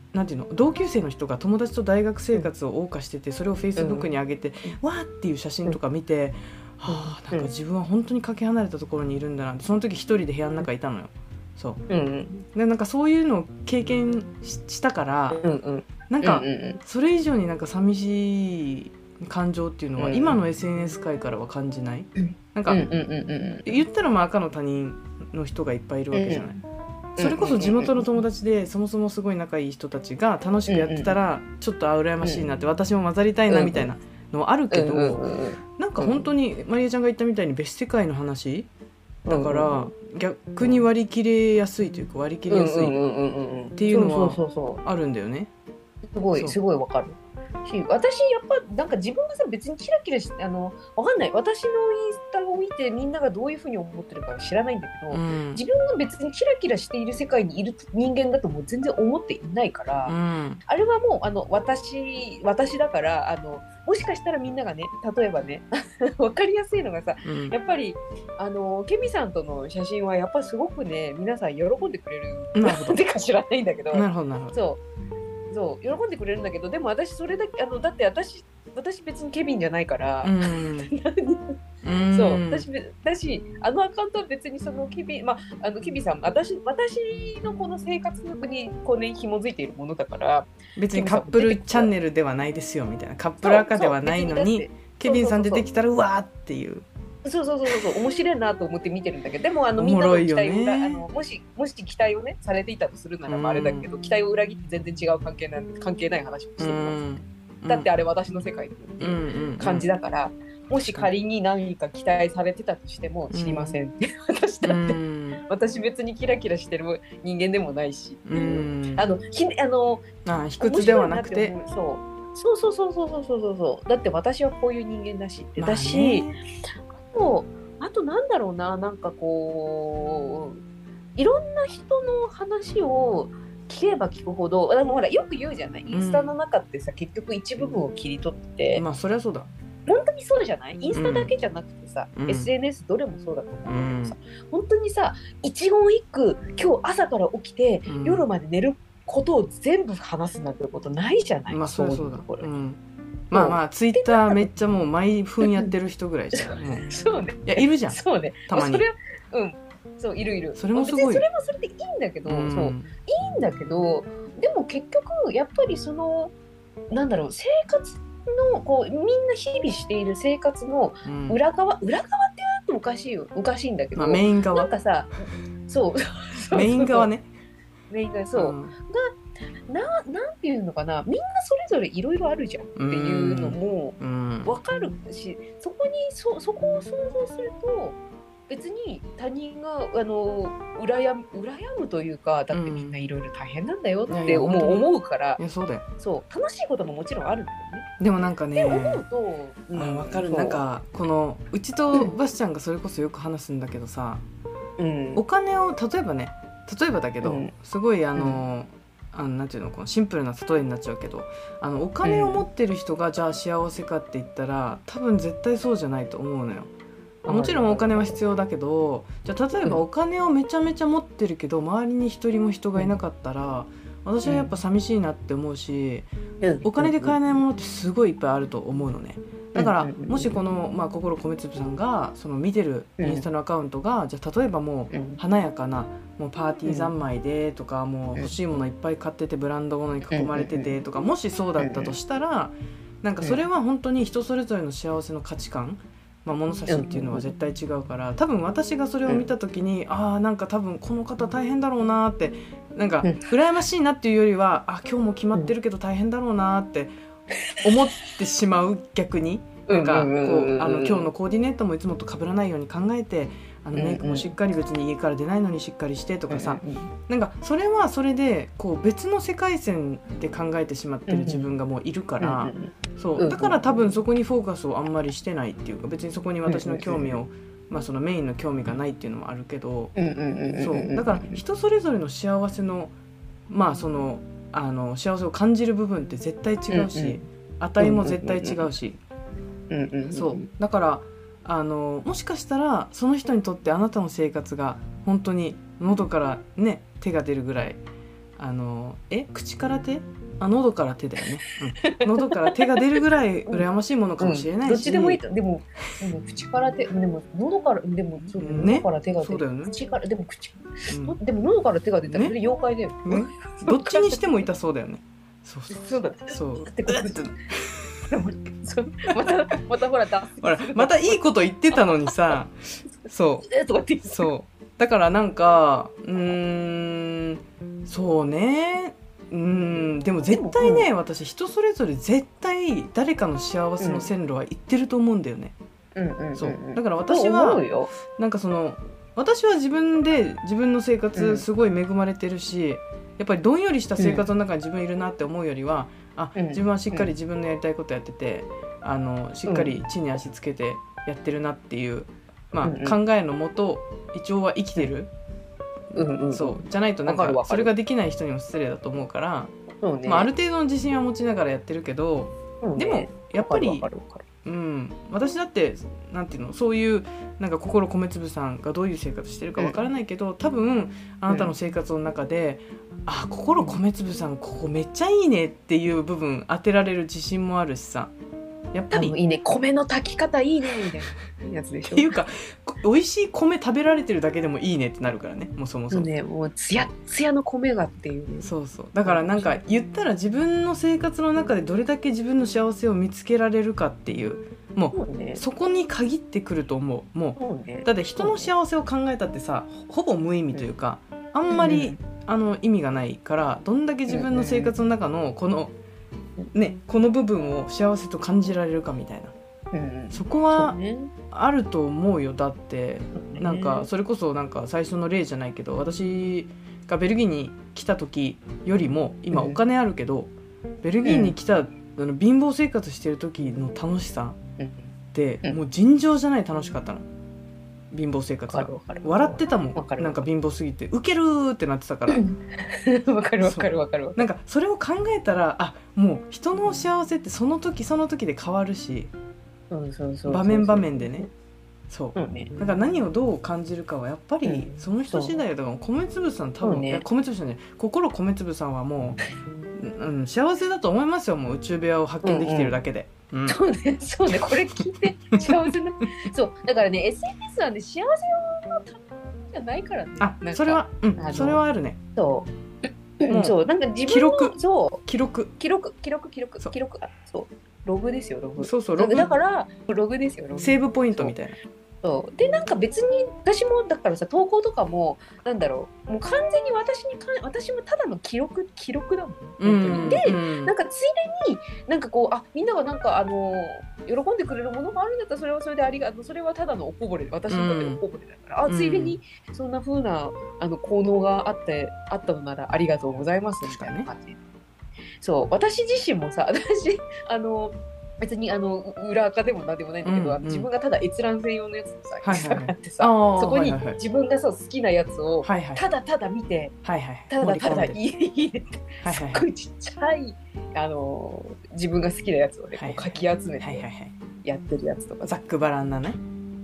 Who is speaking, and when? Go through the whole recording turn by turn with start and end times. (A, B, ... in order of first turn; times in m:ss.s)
0:00.1-0:11.8 A
0:03.8-0:04.1 B
0:06.9-0:07.5 B
0:11.9-0:12.4 B
0:12.5-0:15.4 A
0:15.3-0:16.8 B
0:16.1-0:22.8 A
0:20.0-0:20.4 B
0:22.2-0:23.8 B
0:23.6-0:26.6 A
0:26.1-0:26.5 B
0:27.2-0:28.1 B
0:27.2-0:35.2 A
0:30.7-0:31.2 B
0:32.2-0:32.5 B
0:33.5-0:33.9 B
0:34.7-0:36.3 B
0:35.8-0:38.7 A
0:39.2-0:39.9 B
0:39.3-0:43.0 A
0:42.5-0:44.8 B
0:43.7-0:45.5 A
0:46.1-1:14.8 B
0:55.1-0:55.6 A
1:00.1-1:00.6 A
1:07.2-1:07.5 A
1:12.5-1:13.0 A
1:13.9-1:14.6 A
1:15.5-1:21.5 B
1:20.2-1:20.9 A
1:21.8-1:22.6 A
1:22.1-1:31.9 B
1:30.8-1:36.8 A
1:33.4-1:35.6 B
1:37.2-1:47.0 B
1:39.8-1:41.0 A
1:43.3-1:43.9 A
1:46.6-1:47.9 A
1:47.7-2:00.0 B
1:49.0-1:49.9 A
1:53.3-1:53.8 A
1:54.6-1:55.4 A
1:58.2-1:59.0 A
2:00.2-2:01.6 A
2:00.6-2:06.3 B
2:05.6-2:06.4 A
2:07.0-2:10.6 B
2:11.2-2:18.8 B
2:15.9-2:16.3 A
2:18.7-2:19.5 A
2:19.9-2:32.5 B
2:20.9-2:21.3 A
2:22.1-2:22.5 A
2:23.7-2:24.2 A
2:27.9-2:28.2 A
2:31.5-2:32.8 A
2:33.3-2:36.9 A
2:33.3-2:34.5 B
2:35.4-2:35.7 B
2:36.3-2:46.3 B
2:37.4-2:38.9 A
2:40.5-2:41.2 A
2:42.2-2:42.9 A
2:46.9-2:57.1 B
2:51.0-2:51.4 A
2:54.0-2:54.7 A
2:56.5-2:57.3 A
2:57.9-2:59.1 B
2:58.3-2:58.7 A
2:59.7-3:08.0 B
3:02.8-3:04.6 A
3:08.5-3:15.4 B
3:12.5-3:13.0 A
3:14.1-3:14.9 A
3:15.4-3:15.8 A
3:16.0-3:17.9 B
3:18.0-3:19.0 A
3:18.5-3:20.6 B
3:19.7-3:24.2 A
3:24.8-3:25.2 B
3:25.2-3:36.7 A
3:27.2-3:27.5 B
3:32.0-3:32.4 B
3:37.2-3:38.2 B
3:37.2-3:46.1 A
3:44.2-3:44.5 B
3:46.4-3:47.2 B
3:46.6-4:16.9 A
3:49.5-3:50.4 B
3:53.0-3:53.2 B
3:54.9-3:55.2 B
3:56.6-3:56.9 B
4:00.1-4:00.8 B
4:01.6-4:01.9 B
4:06.7-4:07.3 B
4:13.0-4:13.3 B
4:17.3-4:18.1 B
4:17.6-4:39.9 A
4:19.7-4:21.1 B
4:23.7-4:24.3 B
4:26.3-4:26.9 B
4:31.1-4:31.5 B
4:32.2-4:34.0 B
4:36.4-4:37.2 B
4:39.9-4:41.4 B
4:40.5-4:42.9 A
4:43.5-4:49.0 A
4:46.7-4:47.2 B
4:47.8-4:48.7 B
4:49.7-4:50.5 B
4:50.1-4:57.8 A
4:58.4-5:05.2 A
5:01.5-5:03.6 B
5:04.2-5:14.3 B
5:08.3-5:09.7 A
5:10.9-5:11.2 A
5:12.1-5:12.3 A
5:13.0-5:17.8 A
5:15.7-5:17.3 B
5:18.1-5:22.3 B
5:20.4-5:22.5 A
5:23.0-5:23.5 A
5:23.4-5:24.3 B
5:24.0-5:35.5 A
5:30.3-5:30.9 B
5:33.8-5:34.1 B
5:35.9-5:37.9 B
5:36.4-5:55.1 A
5:41.1-5:41.4 B
5:44.0-5:44.3 B
5:46.3-5:47.1 B
5:49.4-5:49.8 B
5:52.6-5:53.0 B
5:55.9-5:57.7 B
5:56.3-5:59.5 A
5:59.8-6:00.3 B
6:00.0-6:03.8 A
6:02.6-6:04.2 B
6:04.4-6:18.1 A
6:09.6-6:09.8 B
6:11.3-6:11.5 B
6:18.7-6:19.1 A
6:18.9-6:22.1 B
6:21.9-6:26.1 A
6:25.9-6:28.5 B
6:28.4-6:45.7 A
6:29.0-6:29.6 B
6:34.9-6:35.4 B
6:37.4-6:38.5 B
6:41.5-6:42.0 B
6:44.1-6:44.8 B
6:46.5-6:49.3 A
6:49.7-6:51.1 B
6:50.1-6:50.8 A
6:51.3-7:00.3 A
6:53.2-6:53.9 B
6:59.3-6:59.6 B
7:00.8-7:04.4 A
7:01.0-7:01.3 B
7:04.6-7:04.9 B
7:05.1-7:07.0 A
7:07.9-7:12.2 A
7:08.5-7:10.2 B
7:12.1-7:14.2 B
7:13.4-7:19.1 A
7:19.7-7:21.3 B
7:20.2-7:21.3 A
7:21.9-7:29.2 A
7:22.1-7:22.5 B
7:24.4-7:25.4 B
7:26.6-7:27.0 B
7:29.7-7:33.6 A
7:32.2-7:32.8 B
7:33.4-7:41.6 B
7:34.3-7:35.7 A
7:40.2-7:42.0 A
7:42.2-7:45.0 B
7:43.3-7:43.6 A
7:44.1-7:45.5 A
7:45.6-7:51.4 B
7:48.6-7:49.3 A
7:50.5-7:51.6 A
7:52.0-8:14.4 B
7:59.6-8:00.7 A
8:07.5-8:08.0 A
8:08.6-8:09.2 A
8:13.6-8:14.1 A
8:15.2-8:26.8 B
8:20.0-8:20.7 A
8:22.2-8:24.0 A
8:25.4-8:25.8 A
8:26.8-8:28.0 A
8:27.3-8:33.8 B
8:29.0-8:29.4 A
8:32.8-8:34.1 A
8:34.4-8:35.3 B
8:35.2-8:36.2 A